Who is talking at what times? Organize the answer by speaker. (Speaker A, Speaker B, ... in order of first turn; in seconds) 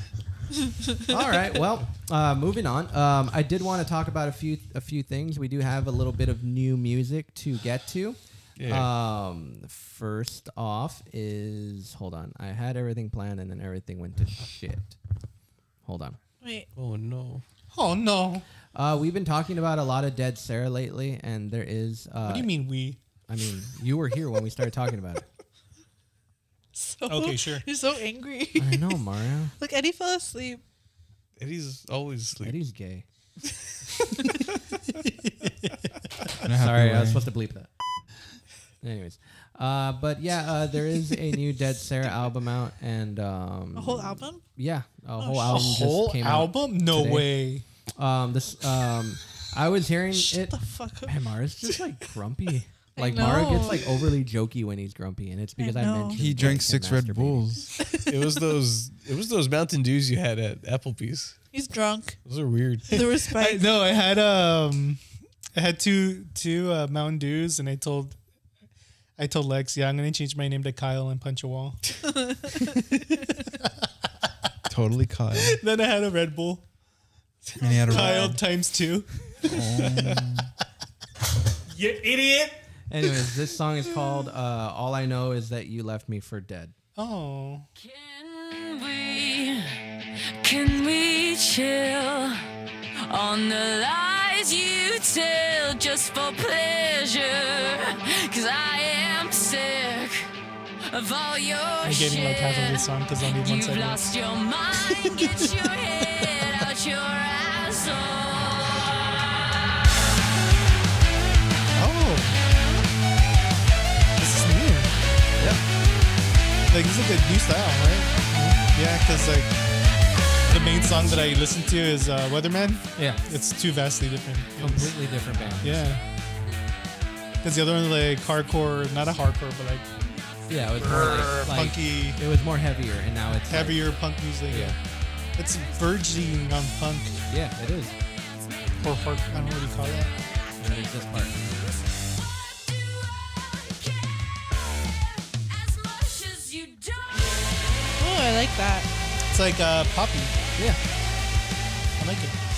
Speaker A: 1.1-8.2, 8.7-15.0, 15.8-16.2, 18.7-22.5, 23.3-25.2, 28.6-29.5, 32.4-33.0, 36.5-37.7, 38.8-47.3, 48.0-57.5, 82.9-86.7, 123.0-123.2, 124.6-125.8, 130.5-133.9, 134.5-134.8, 137.3-138.0, 140.6-141.4
Speaker B: 8.6-8.9, 16.8-17.4, 31.4-32.6, 58.1-61.4, 62.2-62.9
Speaker C: 16.4-16.7, 26.8-29.0, 29.6-30.6, 43.8-44.4, 45.2-45.6, 50.1-51.2, 53.0-53.9, 55.6-56.2, 61.5-62.2, 62.9-63.7, 72.2-72.6, 77.9-78.3, 148.0-148.9
Speaker D: 17.7-18.4, 22.2-23.0, 27.1-27.6, 34.9-35.7, 45.5-47.6, 63.3-65.0, 65.5-68.2, 69.2-71.8, 72.7-73.7, 75.4-76.6, 77.6-80.2, 81.7-82.6, 87.0-87.7, 101.8-104.2, 104.7-106.7, 111.8-112.4, 114.2-114.9, 116.7-119.5, 120.5-124.9, 125.6-126.0, 127.4-129.9, 130.8-132.2, 133.5-134.8, 135.4-137.2, 138.8-140.1, 149.3-150.3, 152.0-152.4
Speaker E: 36.4-37.2, 56.2-57.8, 74.7-75.6, 77.6-78.4, 79.4-80.5
Speaker F: 87.8-89.8, 90.4-92.5, 93.1-100.3, 100.9-109.0, 143.3-143.9, 145.5-147.6